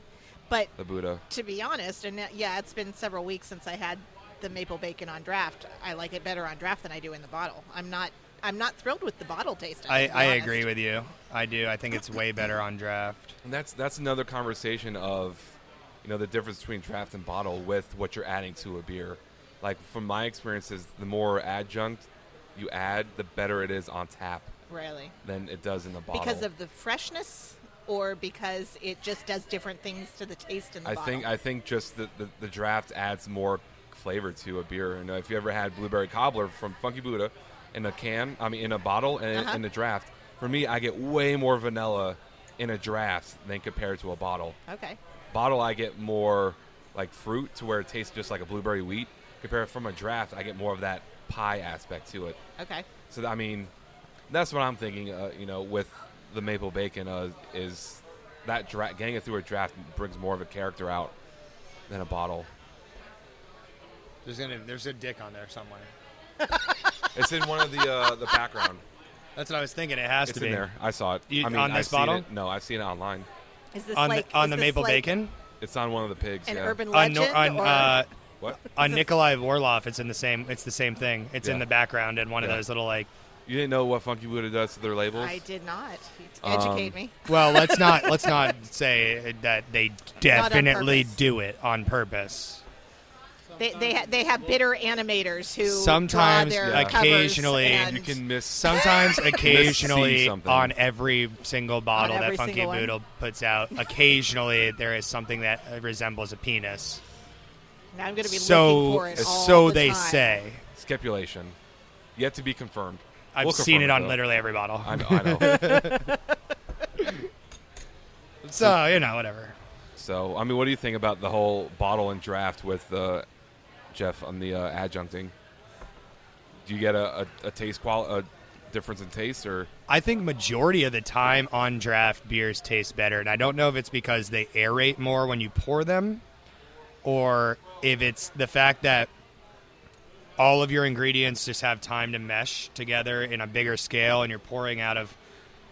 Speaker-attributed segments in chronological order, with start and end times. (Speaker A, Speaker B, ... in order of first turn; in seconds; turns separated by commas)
Speaker A: 0.8-1.2, Speaker B: 1.3-10.7, Speaker C: 9.9-13.3, Speaker A: 13.4-24.5, Speaker B: 24.7-25.1, Speaker A: 25.2-26.4, Speaker B: 26.1-31.3, Speaker A: 30.8-44.6, Speaker B: 39.3-39.6, Speaker B: 44.7-45.0, Speaker A: 45.3-52.4, Speaker B: 52.6-52.9, Speaker A: 53.1-53.7, Speaker A: 54.3-61.1, Speaker A: 61.9-62.5, Speaker C: 64.2-65.9, Speaker B: 66.4-66.7, Speaker A: 67.1-68.8, Speaker C: 69.3-70.7, Speaker A: 70.2-73.3, Speaker C: 71.3-72.3, Speaker B: 73.7-75.1, Speaker C: 73.9-75.3, Speaker A: 75.6-76.8, Speaker B: 76.5-78.0, Speaker C: 76.9-78.1, Speaker C: 78.6-83.1, Speaker A: 83.5-85.4, Speaker B: 85.1-88.4, Speaker A: 86.4-87.0, Speaker C: 87.3-92.6, Speaker B: 90.2-91.1, Speaker B: 93.6-99.4, Speaker C: 95.6-107.0, Speaker A: 96.6-97.1, Speaker A: 97.7-100.7, Speaker B: 101.9-102.9, Speaker B: 107.9-110.3, Speaker C: 108.2-110.6, Speaker A: 110.7-111.5, Speaker A: 112.2-114.2, Speaker C: 113.3-116.1, Speaker A: 114.8-115.9, Speaker B: 115.4-116.1, Speaker C: 118.4-119.5, Speaker A: 120.0-123.3, Speaker A: 123.9-125.3, Speaker A: 126.7-129.7, Speaker C: 129.9-136.2, Speaker C: 137.0-139.1, Speaker C: 140.4-145.2